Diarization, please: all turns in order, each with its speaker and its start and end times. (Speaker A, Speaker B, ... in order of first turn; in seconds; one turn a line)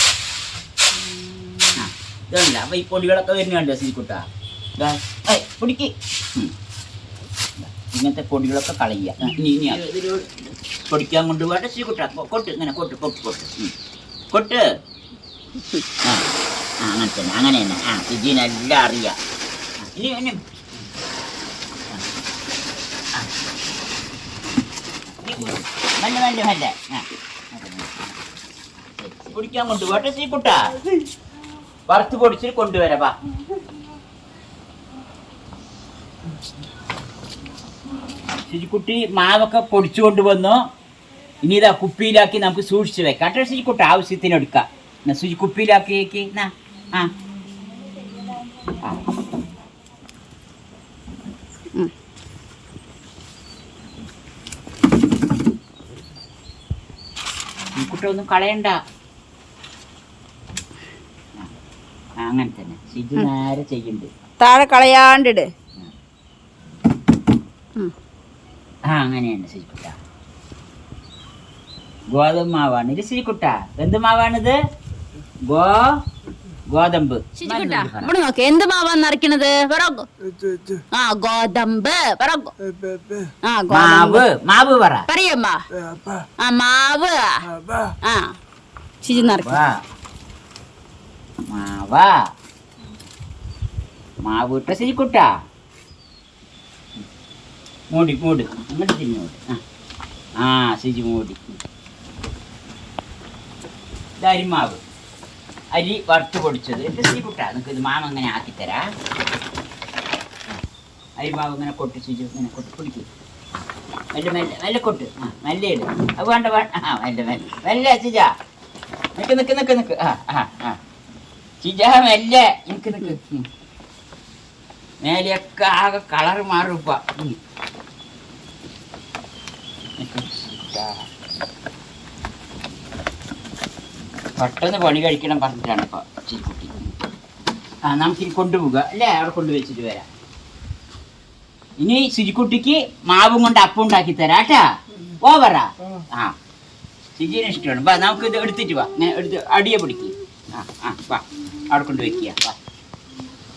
Speaker A: 1.7-4.2
Speaker A: 4.8-6.5
Speaker A: 7.6-13.7
Speaker A: 14.3-14.6
Speaker B: 15.6-15.8
Speaker A: 16.0-16.3
Speaker A: 16.8-19.2
Speaker A: 19.8-20.9
Speaker A: 25.1-28.2
Speaker A: 28.8-30.8
Speaker A: 31.9-33.1
Speaker A: 38.4-40.6
Speaker A: 41.4-47.1
Speaker A: 57.7-58.8
Speaker A: 62.2-64.1
Speaker B: 64.4-65.5
Speaker A: 68.9-70.0
Speaker A: 72.1-74.6
Speaker A: 75.5-75.9
Speaker A: 76.7-78.1
Speaker B: 77.4-80.1
Speaker B: 80.9-82.5
Speaker B: 83.4-84.2
Speaker A: 83.7-85.0
Speaker B: 85.1-85.6
Speaker B: 86.4-87.5
Speaker B: 88.0-88.3
Speaker B: 89.0-89.6
Speaker A: 89.1-89.8
Speaker A: 91.5-92.2
Speaker A: 94.2-95.3
Speaker A: 97.9-99.6
Speaker A: 100.4-101.6
Speaker A: 104.2-104.8
Speaker A: 105.7-108.8
Speaker A: 111.2-113.1
Speaker A: 114.1-118.3
Speaker A: 119.2-120.8
Speaker A: 121.6-123.4
Speaker A: 125.0-127.4
Speaker A: 130.0-131.1
Speaker A: 134.4-136.9
Speaker A: 137.8-140.1
Speaker A: 141.8-144.6
Speaker A: 145.2-146.3
Speaker A: 147.2-152.6